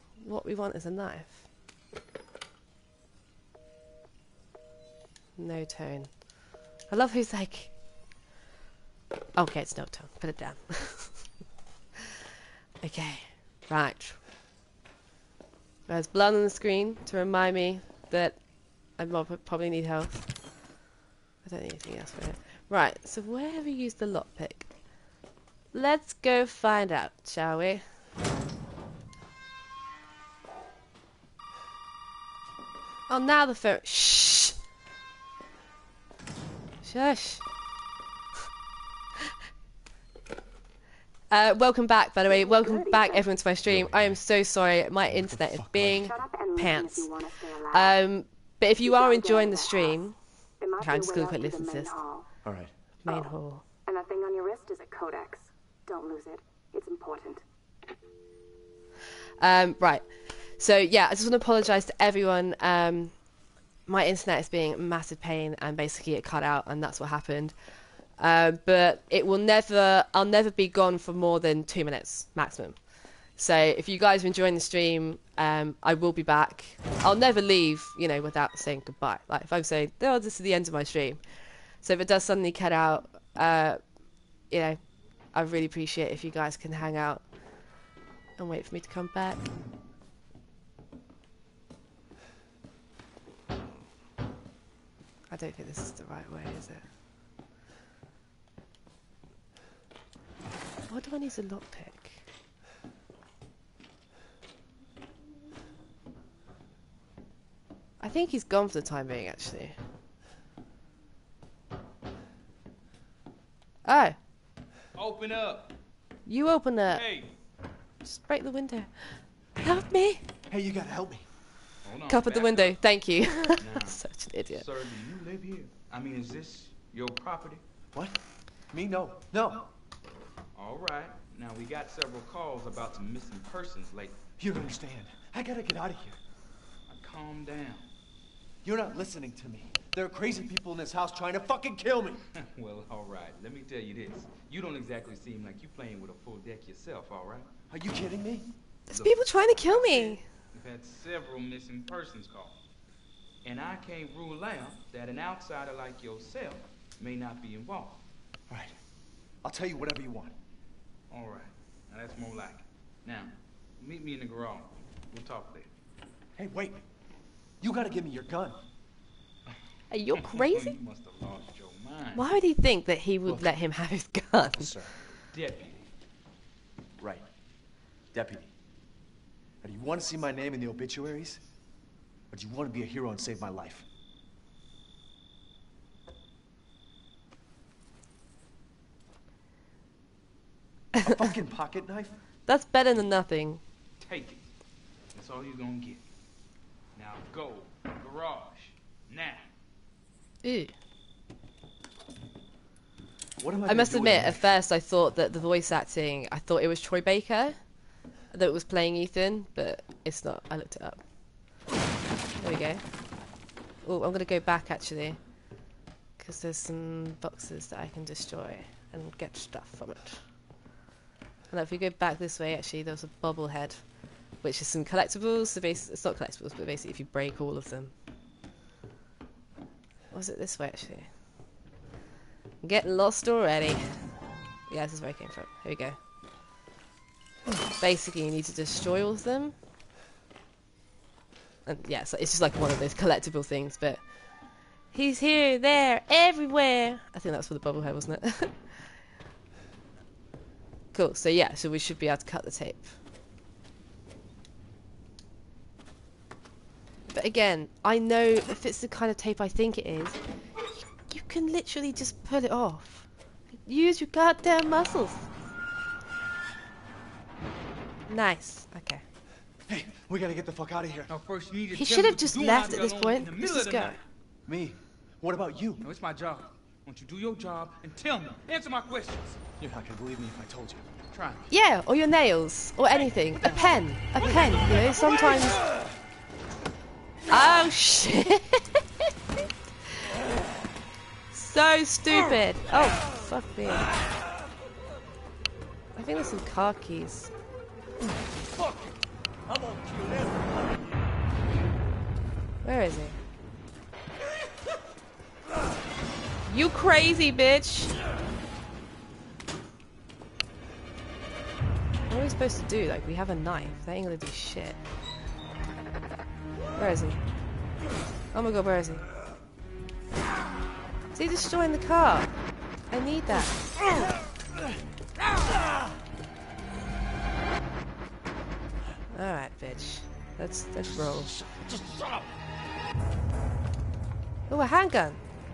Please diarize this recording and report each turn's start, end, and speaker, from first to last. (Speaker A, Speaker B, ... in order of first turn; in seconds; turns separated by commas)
Speaker A: 0.2-1.4, Speaker A: 5.4-6.1, Speaker A: 6.9-7.7, Speaker A: 9.3-11.3, Speaker A: 12.8-14.2, Speaker A: 15.9-18.4, Speaker A: 18.9-20.3, Speaker A: 21.4-24.7, Speaker A: 25.7-27.8, Speaker A: 33.1-34.6, Speaker A: 36.8-37.4, Speaker A: 41.3-47.1, Speaker B: 42.3-43.3, Speaker C: 43.6-44.2, Speaker C: 45.1-46.1, Speaker B: 46.0-48.0, Speaker A: 47.7-50.2, Speaker B: 48.8-50.0, Speaker B: 50.6-52.3, Speaker A: 50.8-52.0, Speaker C: 52.4-52.7, Speaker B: 53.0-53.3, Speaker A: 53.0-53.6, Speaker B: 53.9-57.4, Speaker A: 59.4-60.0, Speaker A: 60.6-63.1, Speaker A: 63.9-67.5, Speaker A: 68.2-72.8, Speaker A: 73.4-81.2, Speaker A: 81.8-83.8, Speaker A: 84.5-84.8, Speaker A: 85.3-87.2, Speaker A: 88.4-89.4, Speaker A: 95.3-96.8, Speaker A: 100.9-102.2, Speaker A: 108.0-109.7, Speaker A: 113.8-114.2, Speaker D: 114.9-115.7, Speaker A: 116.3-117.0, Speaker D: 116.9-117.3, Speaker A: 118.0-120.3, Speaker C: 120.5-121.2, Speaker D: 121.8-122.8, Speaker A: 122.1-124.7, Speaker D: 123.6-127.6, Speaker C: 128.7-129.7, Speaker D: 130.5-134.2, Speaker C: 134.4-136.2, Speaker D: 136.9-137.9, Speaker C: 138.6-140.6, Speaker C: 141.2-141.9, Speaker D: 142.3-147.5, Speaker C: 147.7-148.5, Speaker A: 148.9-150.2, Speaker D: 148.9-152.6, Speaker D: 153.4-158.0, Speaker C: 159.4-160.3, Speaker D: 161.1-165.7, Speaker C: 166.4-166.7, Speaker C: 167.6-168.6, Speaker A: 169.9-170.8, Speaker D: 170.1-172.3, Speaker A: 172.1-174.8, Speaker D: 174.6-175.9, Speaker C: 177.0-177.2, Speaker C: 178.1-178.5, Speaker C: 179.6-181.4, Speaker C: 182.3-183.8, Speaker A: 190.9-191.3, Speaker C: 191.1-192.1, Speaker A: 192.5-193.6, Speaker D: 194.0-194.4, Speaker D: 195.1-196.0, Speaker D: 196.9-199.5, Speaker A: 200.4-200.7, Speaker C: 203.4-204.4, Speaker A: 203.7-207.6, Speaker A: 208.3-211.0, Speaker A: 212.4-212.8, Speaker A: 213.8-215.2, Speaker A: 216.2-220.2, Speaker A: 221.5-223.8, Speaker A: 224.4-227.9, Speaker A: 230.1-231.1, Speaker A: 232.6-233.8, Speaker A: 234.7-236.0, Speaker A: 237.8-239.5, Speaker A: 241.7-244.0, Speaker A: 244.9-249.0, Speaker A: 250.9-252.9, Speaker A: 257.1-260.2, Speaker A: 260.8-263.1, Speaker A: 263.6-265.3, Speaker A: 268.1-269.0, Speaker C: 269.7-271.1, Speaker D: 271.1-274.0, Speaker A: 271.7-274.0, Speaker C: 274.5-275.8, Speaker D: 275.8-279.4, Speaker C: 279.6-280.8, Speaker D: 281.1-281.4, Speaker A: 281.5-285.6, Speaker A: 287.3-289.1, Speaker A: 291.3-293.9, Speaker A: 295.9-297.3, Speaker E: 298.4-301.1, Speaker A: 302.6-303.2, Speaker A: 306.5-307.9, Speaker A: 312.1-314.8, Speaker A: 316.7-317.2, Speaker A: 318.3-319.0, Speaker A: 321.1-322.3, Speaker A: 322.9-323.7, Speaker A: 329.1-331.3, Speaker A: 334.5-335.2